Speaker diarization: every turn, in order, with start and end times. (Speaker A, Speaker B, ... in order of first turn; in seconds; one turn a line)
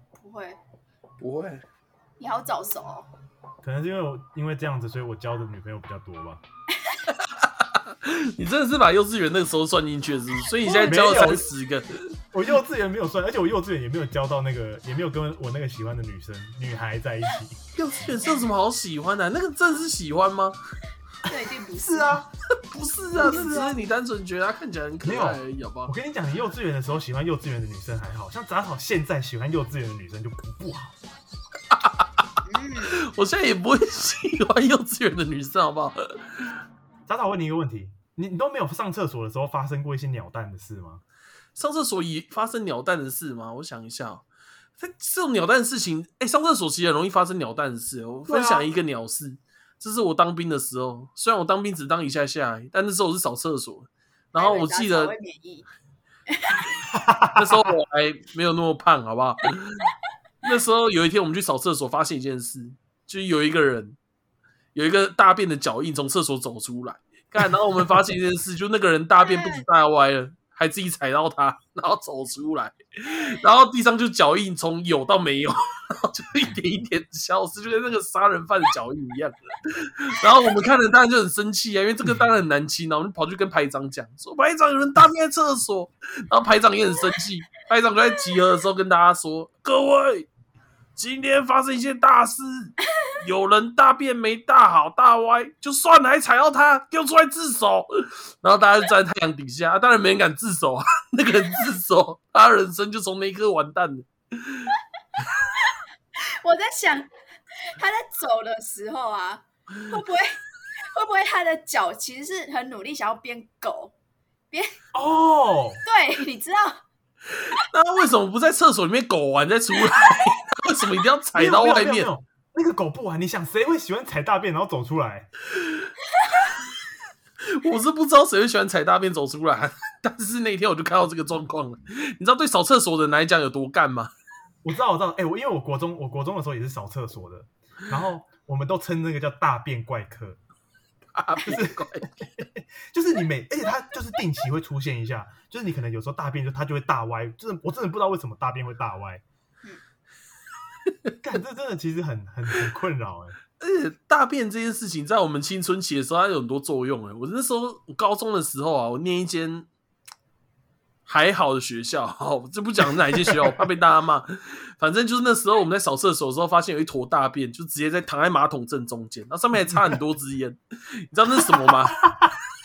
Speaker A: 0.2-0.6
Speaker B: 1.2-1.6
Speaker A: 2.2-3.1
Speaker C: 3.6-6.4
Speaker B: 7.1-12.1
Speaker C: 10.8-11.5
Speaker C: 12.3-17.6
Speaker B: 17.8-20.6
Speaker A: 21.3-22.2
Speaker C: 21.3-22.3
Speaker B: 22.6-25.9
Speaker C: 23.2-23.8
Speaker A: 23.3-23.6
Speaker C: 25.0-30.9
Speaker B: 31.7-36.2
Speaker A: 32.5-32.9
Speaker C: 37.1-41.0
Speaker B: 41.5-44.2
Speaker B: 44.8-55.1
Speaker C: 48.3-48.7
Speaker A: 54.4-55.7
Speaker A: 56.3-56.8
Speaker C: 56.9-57.7
Speaker B: 57.4-59.9
Speaker B: 60.4-64.0
Speaker B: 64.8-90.3
Speaker A: 69.2-69.7
Speaker B: 91.0-104.8
Speaker A: 105.6-107.1
Speaker A: 107.7-110.4
Speaker A: 110.9-113.9
Speaker A: 114.5-114.8
Speaker C: 114.9-115.8
Speaker A: 115.9-116.8
Speaker B: 117.3-122.1
Speaker C: 121.3-125.3
Speaker B: 125.6-125.9
Speaker B: 127.4-134.1
Speaker C: 134.6-140.4
Speaker B: 141.1-142.3
Speaker C: 141.5-149.2
Speaker C: 151.2-153.4
Speaker B: 153.6-159.7
Speaker B: 161.1-172.0